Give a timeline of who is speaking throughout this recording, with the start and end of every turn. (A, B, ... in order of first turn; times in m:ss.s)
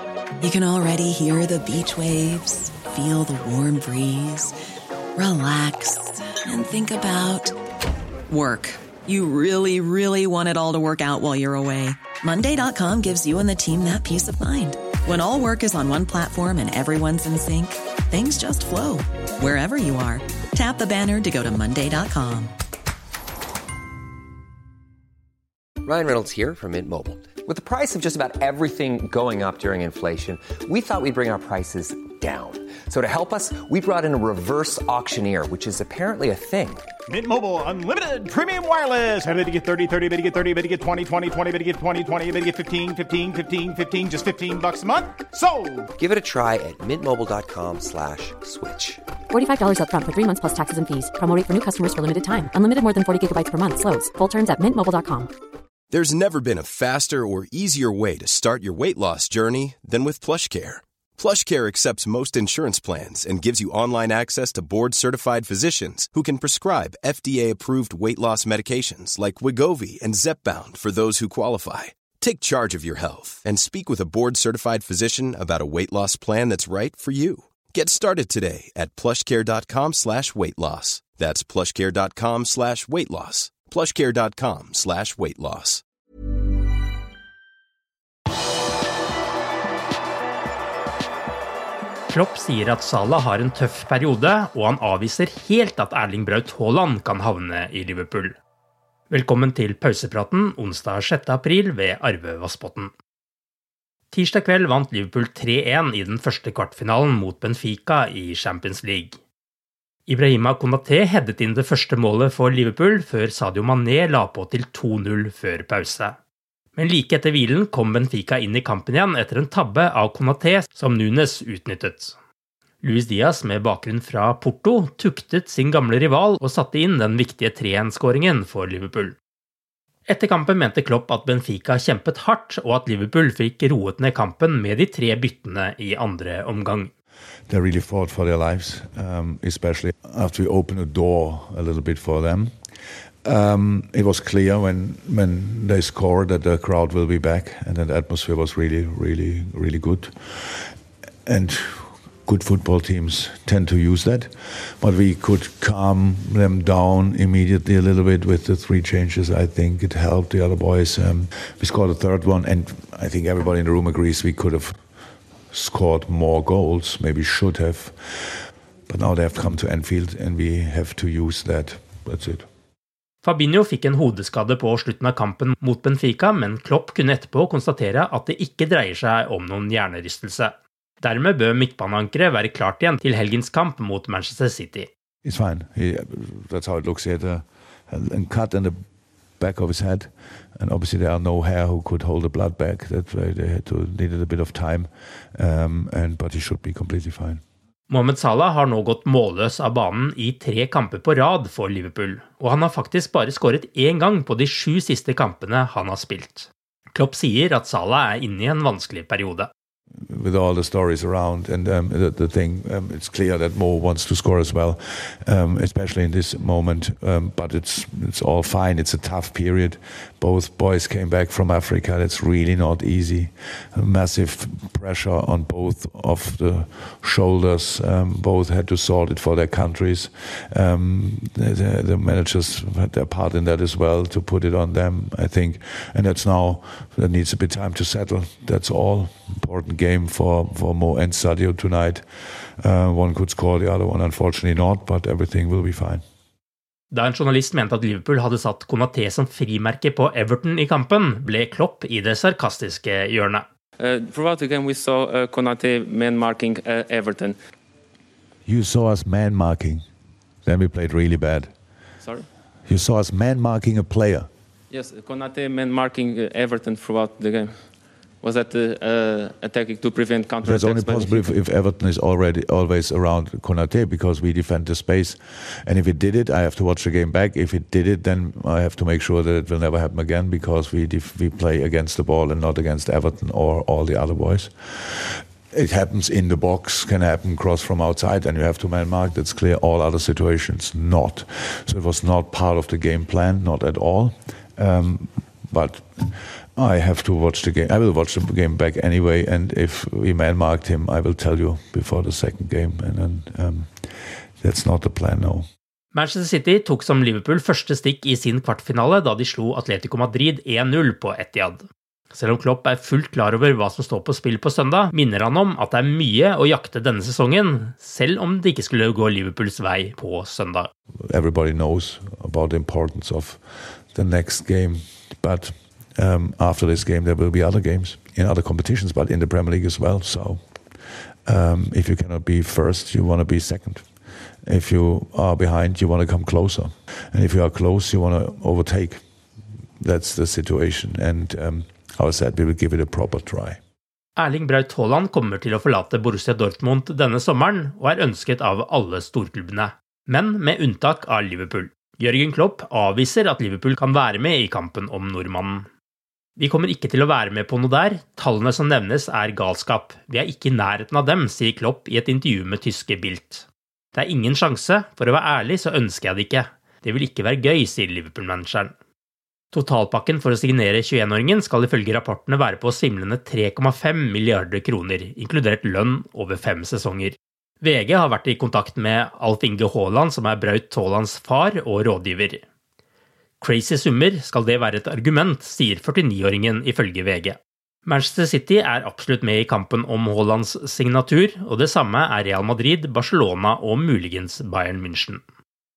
0:00.4-0:04.6 A
0:05.2-0:07.6 A
0:08.3-0:22.5 A
0:25.8-0:36.8 B
0:37.1-0:45.9 C
0:46.0-0:49.0 B
0:49.3-0:55.3 D
0:55.9-1:25.8 E
1:32.1-1:38.4 F
1:39.1-1:42.9 F
1:44.1-1:49.2 F
1:50.1-1:56.2 F
1:56.8-2:02.2 F
2:02.8-2:09.2 F
2:10.1-2:16.9 F
2:17.5-2:22.5 G
2:23.2-2:30.7 G
2:31.3-2:44.7 G
2:45.5-2:48.4 G
2:48.9-2:52.5 G
2:53.2-3:04.9 F
3:05.2-3:08.7 G
3:09.4-3:17.4 G
3:17.9-3:29.5 F
3:30.1-4:02.0 G
4:02.6-4:06.0 G
4:06.9-4:13.5 F
4:13.8-4:17.4 H
4:18.5-4:19.8 G
4:20.4-4:21.5 G
4:22.7-4:24.3 G
4:24.7-4:27.6 H
4:28.2-4:31.2 H
4:30.4-5:03.9 G
5:04.4-5:05.5 G
5:05.9-5:20.7 F
5:21.1-5:30.4 G
5:31.3-5:33.9 G
5:34.5-5:39.0 G
5:39.8-5:43.6 G
5:44.2-5:55.7 F
5:56.4-6:08.7 F
6:09.5-6:22.4 F
6:23.4-6:35.2 F